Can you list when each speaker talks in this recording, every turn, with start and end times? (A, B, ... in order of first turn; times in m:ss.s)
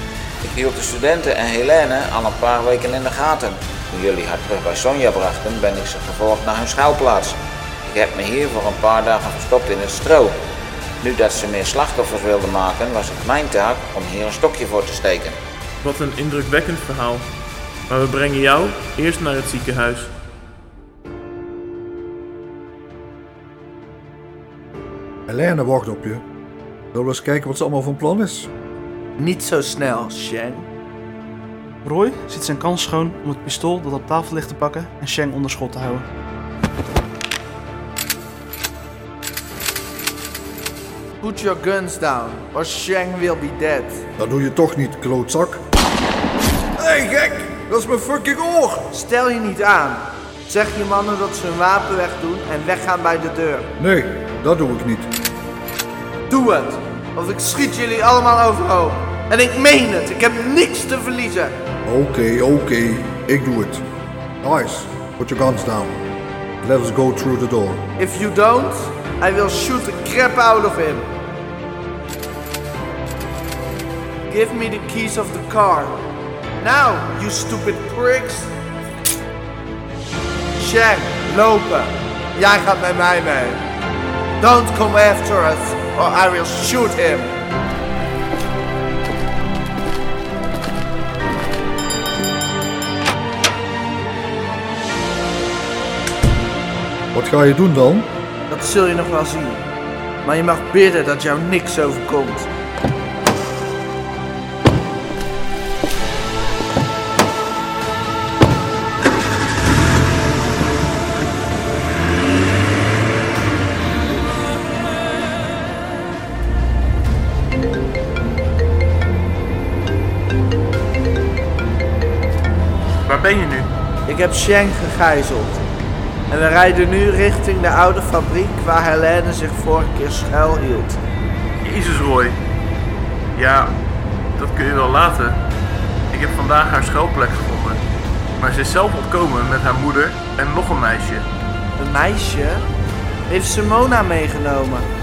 0:00.4-0:10.3 A
0:11.0-0:15.4 A
0:15.8-0:17.3 B
0:17.9-0:20.1 B
0:25.3-0:26.2 C
0:26.9-0:28.5 C
0:29.2-0:30.7 D
0:31.8-0:36.1 E
0:41.2-0:44.0 D
0:44.2-0:45.6 C
0:46.8-0:48.8 C
0:48.9-0:53.7 D
0:53.8-0:55.1 C
0:56.3-1:01.6 D
1:01.8-1:03.8 C
1:04.4-1:05.9 C
1:06.6-1:07.8 C
1:08.0-1:11.1 D
1:14.3-1:16.0 D
1:16.6-1:18.5 D
1:20.6-1:23.6 D
1:24.4-1:27.3 D
1:37.1-1:38.1 C
1:38.5-1:39.6 D
1:40.2-1:42.5 D
2:03.1-2:03.7 B
2:04.1-2:05.6 D
2:06.3-2:11.0 D
2:11.6-2:12.4 B
2:13.4-2:13.8 B
2:14.4-2:15.4 B
2:16.1-2:17.8 B
2:18.4-2:21.3 B
2:21.8-2:22.7 D
2:23.3-2:24.9 D